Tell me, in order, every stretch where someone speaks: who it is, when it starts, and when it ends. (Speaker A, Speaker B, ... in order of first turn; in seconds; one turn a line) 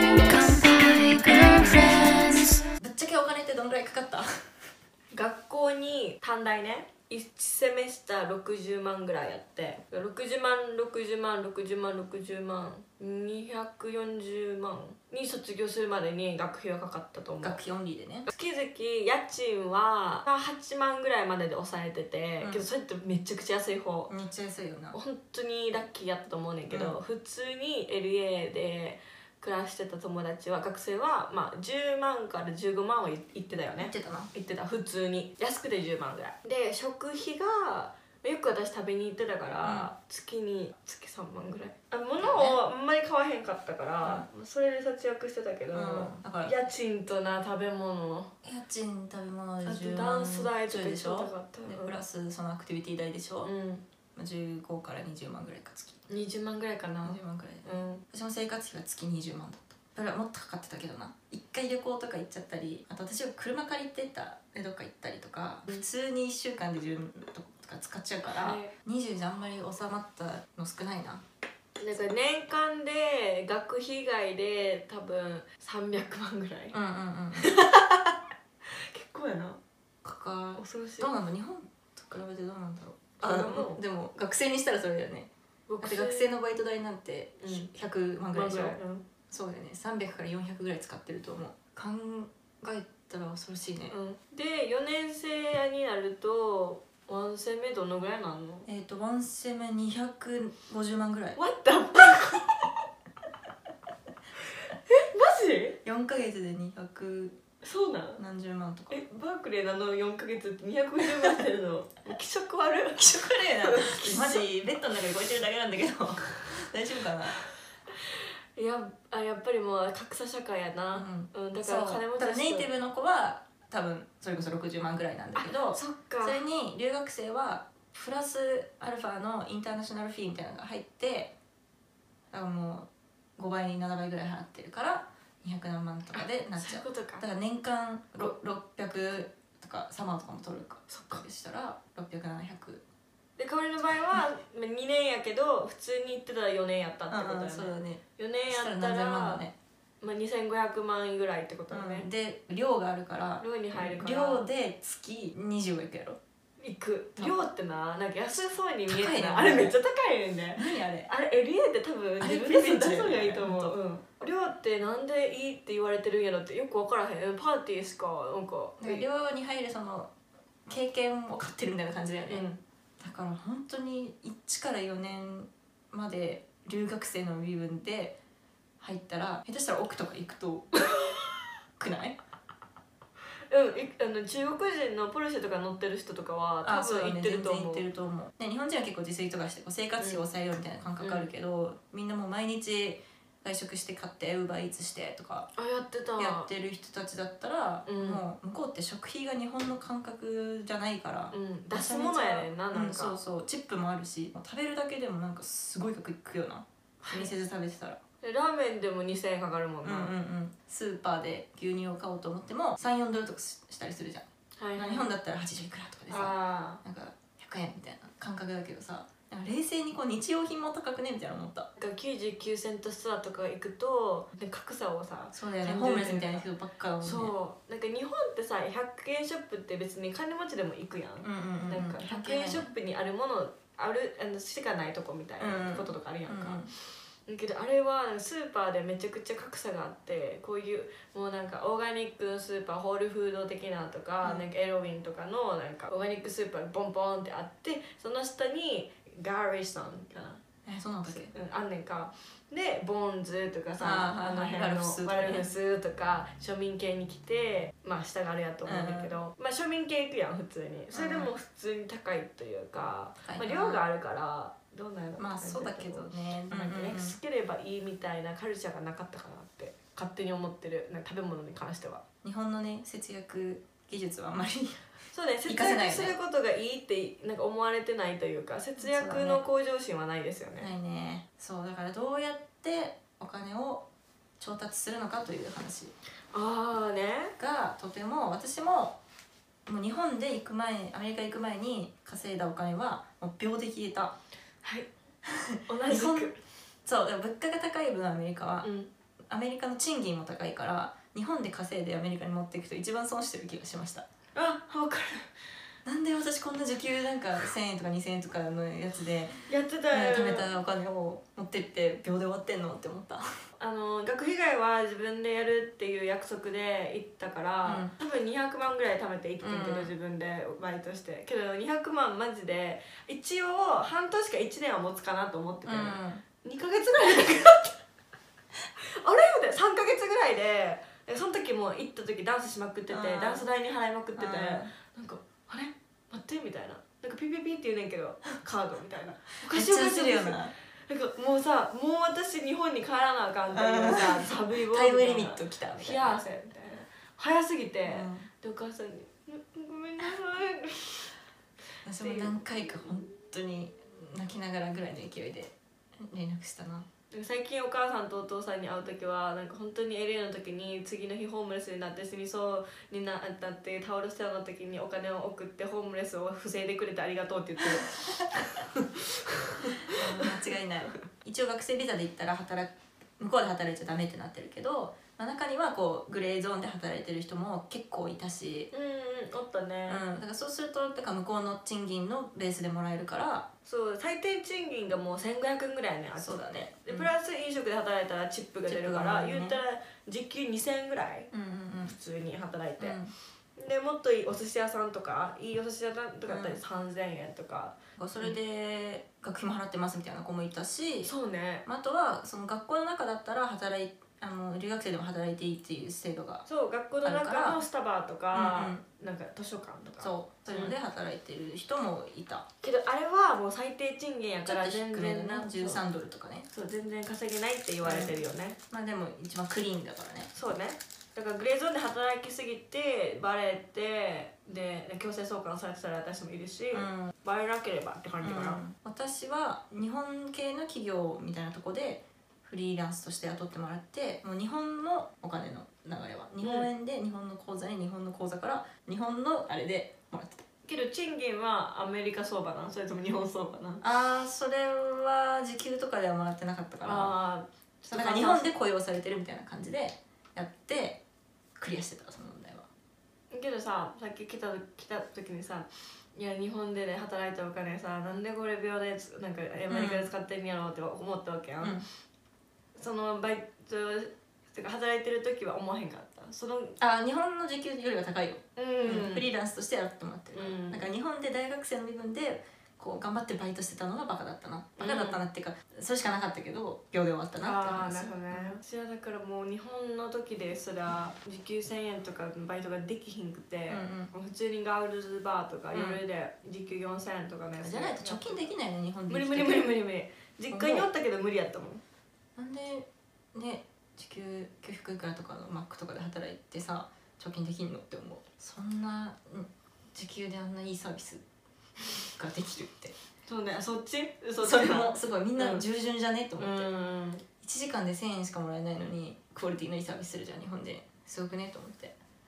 Speaker A: 0.3-2.4
Speaker B: 2.8-4.3
Speaker A: 5.1-17.6
Speaker B: 17.4-18.3
Speaker A: 18.3-24.1
Speaker B: 24.1-25.0
Speaker A: 24.9-48.3
Speaker B: 26.7-27.0
Speaker B: 33.8-34.3
Speaker B: 39.6-39.9
Speaker B: 42.2-42.6
Speaker B: 45.7-46.5
Speaker B: 48.4-53.5
Speaker A: 49.6-52.0
Speaker A: 53.4-53.8
Speaker B: 54.1-56.1
Speaker A: 56.1-58.0
Speaker B: 57.0-71.2
Speaker A: 68.2-68.7
Speaker A: 71.8-76.8
Speaker B: 76.7-77.6
Speaker A: 77.4-78.2
Speaker A: 78.7-79.6
Speaker B: 80.0-85.3
Speaker A: 80.6-81.1
Speaker A: 83.2-83.8
Speaker A: 85.7-86.4
Speaker B: 85.8-88.8
Speaker A: 87.4-87.7
Speaker A: 88.3-89.0
Speaker B: 89.3-93.9
Speaker A: 93.9-98.7
Speaker B: 98.7-101.4
Speaker A: 101.4-102.7
Speaker A: 104.9-105.8
Speaker B: 105.8-107.4
Speaker A: 107.6-108.2
Speaker B: 108.2-109.0
Speaker A: 108.9-114.5
Speaker B: 113.0-117.4
Speaker A: 118.6-122.7
Speaker B: 120.9-131.3
Speaker A: 125.4-126.4
Speaker B: 132.3-142.8
Speaker A: 136.2-137.2
Speaker A: 140.9-141.2
Speaker A: 143.4-149.5
Speaker B: 147.1-149.6
Speaker A: 150.0-152.1
Speaker B: 151.7-156.2
Speaker A: 153.4-154.5
Speaker A: 156.6-169.1
Speaker B: 158.9-159.8
Speaker B: 160.6-161.1
Speaker B: 162.2-163.8
Speaker B: 168.8-170.1
Speaker B: 170.7-172.5
Speaker A: 172.3-172.6
Speaker B: 173.0-178.2
Speaker B: 178.8-180.8
Speaker B: 181.8-182.2
Speaker A: 183.5-187.9
Speaker B: 186.6-195.5
Speaker A: 190.0-190.2
Speaker A: 191.0-191.3
Speaker A: 195.6-196.5
Speaker B: 196.2-208.0
Speaker A: 197.9-198.2
Speaker A: 201.3-203.2
Speaker A: 207.0-207.3
Speaker A: 208.2-210.1
Speaker B: 209.8-221.7
Speaker A: 214.6-215.1
Speaker A: 216.1-216.8
Speaker A: 221.8-226.5
Speaker B: 225.3-227.3
Speaker A: 227.0-236.7
Speaker B: 231.2-232.7
Speaker B: 235.4-236.7
Speaker A: 237.3-250.4
Speaker B: 250.7-251.3
Speaker A: 251.1-272.0
Speaker B: 253.8-255.5
Speaker B: 258.6-259.2
Speaker B: 260.9-261.3
Speaker B: 263.3-263.9
Speaker B: 265.2-267.2
Speaker B: 272.2-274.9
Speaker A: 275.1-280.7
Speaker B: 275.5-276.2
Speaker B: 278.8-279.4
Speaker B: 280.6-283.9
Speaker B: 284.4-285.9
Speaker A: 286.3-287.4
Speaker B: 287.4-289.0
Speaker B: 289.7-294.1
Speaker A: 294.6-294.9
Speaker B: 295.3-296.3
Speaker A: 295.7-296.4
Speaker B: 296.9-298.7
Speaker A: 298.6-298.9
Speaker B: 299.3-304.1
Speaker A: 304.4-305.3
Speaker B: 305.9-313.3
Speaker A: 309.5-310.5
Speaker A: 313.6-327.8
Speaker B: 317.6-317.9
Speaker B: 319.4-319.9
Speaker B: 325.6-326.2
Speaker A: 328.8-351.1
Speaker B: 332.9-333.5
Speaker B: 334.2-334.7
Speaker B: 339.5-340.5
Speaker B: 343.5-346.2
Speaker B: 347.9-348.3
Speaker B: 351.9-356.9
Speaker A: 352.0-352.4
Speaker A: 357.1-370.3
Speaker B: 369.9-378.7
Speaker A: 378.7-380.0
Speaker B: 379.9-383.5
Speaker A: 383.6-391.3
Speaker B: 386.2-387.1
Speaker B: 388.7-389.6
Speaker B: 391.3-392.0
Speaker A: 391.9-393.0
Speaker B: 392.8-393.1
Speaker A: 393.6-398.4
Speaker B: 396.3-396.6
Speaker B: 398.0-401.1
Speaker A: 401.0-401.6
Speaker B: 401.6-406.4
Speaker A: 406.5-410.8
Speaker B: 407.0-407.6
Speaker B: 408.3-408.8
Speaker B: 410.0-412.5
Speaker A: 412.6-415.8
Speaker B: 414.4-416.5
Speaker A: 416.5-418.6
Speaker B: 417.8-420.3
Speaker A: 420.3-428.6
Speaker B: 426.7-427.1
Speaker B: 428.2-440.4
Speaker A: 436.4-436.7
Speaker A: 440.6-443.8
Speaker B: 443.8-447.2
Speaker A: 446.9-448.5
Speaker B: 447.9-451.0
Speaker B: 451.6-452.7
Speaker A: 453.3-461.8
Speaker B: 459.7-460.1
Speaker B: 461.6-461.9
Speaker A: 462.8-466.8
Speaker B: 466.8-478.6
Speaker A: 468.6-469.3
Speaker A: 470.3-470.9
Speaker A: 474.8-475.2
Speaker A: 477.4-488.5
Speaker B: 483.7-484.1
Speaker B: 485.7-486.0
Speaker B: 487.6-489.8
Speaker A: 489.1-491.8
Speaker B: 490.5-490.9
Speaker B: 492.4-501.2
Speaker B: 502.1-502.9
Speaker A: 503.3-505.6
Speaker B: 504.4-506.7
Speaker A: 506.4-507.2
Speaker B: 507.4-512.0